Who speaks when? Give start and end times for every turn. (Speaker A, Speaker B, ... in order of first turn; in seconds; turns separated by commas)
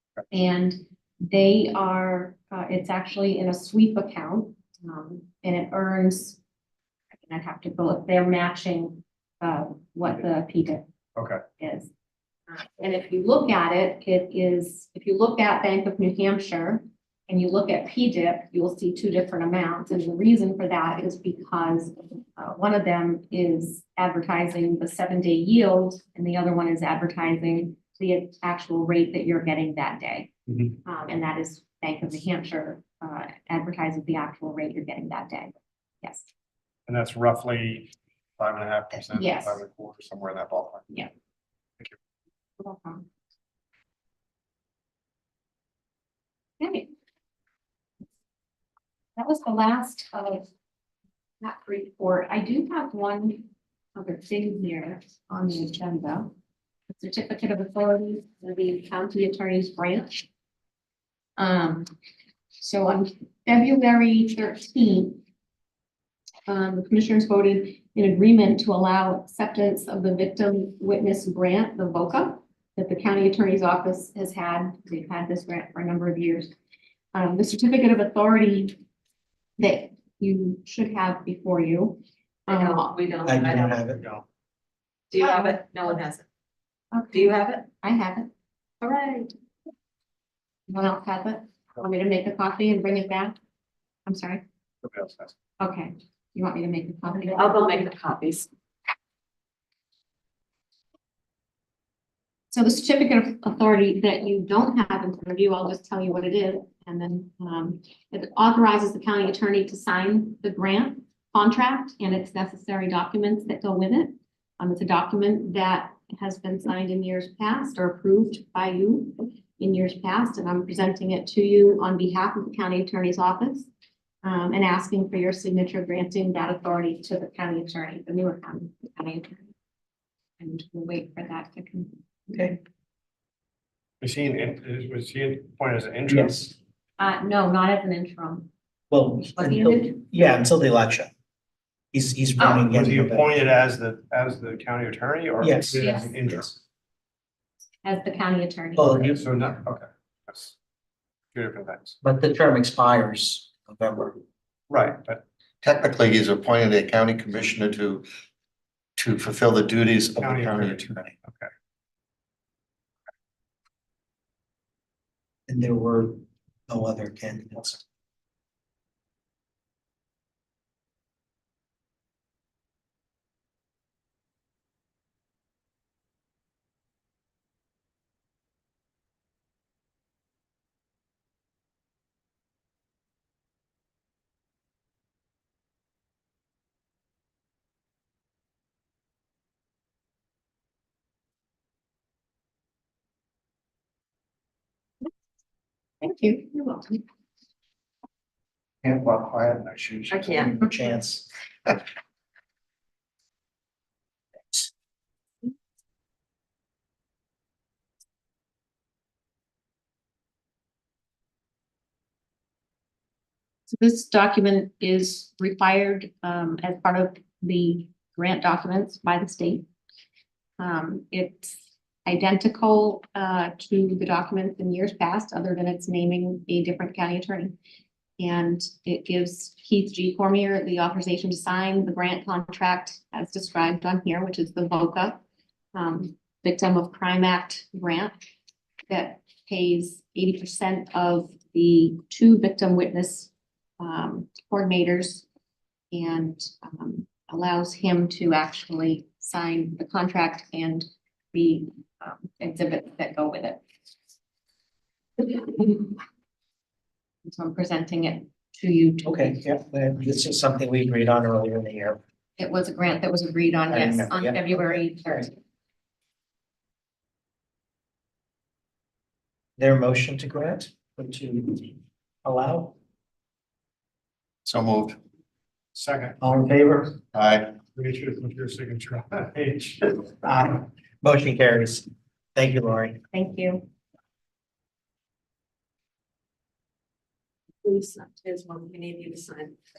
Speaker A: 0.3-6.4, Speaker A: 7.2-10.8, Speaker B: 11.2-11.4, Speaker A: 11.6-11.9, Speaker A: 12.5-30.3, Speaker A: 30.8-36.3, Speaker B: 36.9-40.9, Speaker A: 39.1-39.6, Speaker A: 42.6-43.0, Speaker A: 46.6-46.9, Speaker A: 49.1-50.5, Speaker A: 51.4-56.3, Speaker A: 56.9-60.2, Speaker A: 61.4-61.9, Speaker A: 62.6-65.2, Speaker A: 66.5-76.5, Speaker A: 77.1-78.8, Speaker A: 79.6-82.9, Speaker C: 82.5-83.8, Speaker D: 83.2-84.0, Speaker B: 84.0-84.2, Speaker C: 85.1-86.2, Speaker A: 85.2-85.5, Speaker A: 86.9-88.3, Speaker C: 87.1-87.6, Speaker C: 88.8-89.3, Speaker A: 90.7-93.3, Speaker A: 94.0-94.4, Speaker B: 94.8-95.3, Speaker A: 95.6-97.8, Speaker C: 97.3-98.5, Speaker A: 102.5-123.7, Speaker A: 124.2-129.5, Speaker A: 130.4-132.0, Speaker D: 132.3-132.6, Speaker B: 134.0-136.5, Speaker D: 136.1-136.5, Speaker A: 137.0-138.5, Speaker D: 138.9-141.1, Speaker A: 139.3-140.0, Speaker D: 141.9-143.4, Speaker B: 142.4-146.6, Speaker D: 145.4-146.3, Speaker A: 145.8-146.1, Speaker A: 147.8-149.2, Speaker D: 148.8-149.2, Speaker B: 149.1-150.5, Speaker B: 151.3-152.0, Speaker D: 152.0-154.2, Speaker B: 154.7-155.2, Speaker E: 155.6-158.1, Speaker E: 158.9-161.1, Speaker B: 160.2-161.5, Speaker D: 165.5-167.8, Speaker A: 196.0-197.0, Speaker B: 198.8-199.1, Speaker E: 198.8-200.2, Speaker B: 199.7-200.5, Speaker C: 200.1-200.5, Speaker D: 200.5-201.3, Speaker A: 213.7-219.7, Speaker A: 220.6-227.5, Speaker A: 228.2-235.2, Speaker A: 235.7-238.2, Speaker A: 238.9-245.2, Speaker A: 245.9-253.6, Speaker A: 255.2-256.0, Speaker A: 257.2-259.4, Speaker D: 259.0-262.0, Speaker A: 262.4-265.4, Speaker D: 263.7-264.8, Speaker D: 269.6-272.8, Speaker E: 274.4-275.0, Speaker B: 275.7-276.2, Speaker D: 276.2-277.0, Speaker E: 277.1-277.6, Speaker B: 277.6-280.0, Speaker D: 280.2-283.0, Speaker A: 283.1-283.6, Speaker C: 287.6-289.5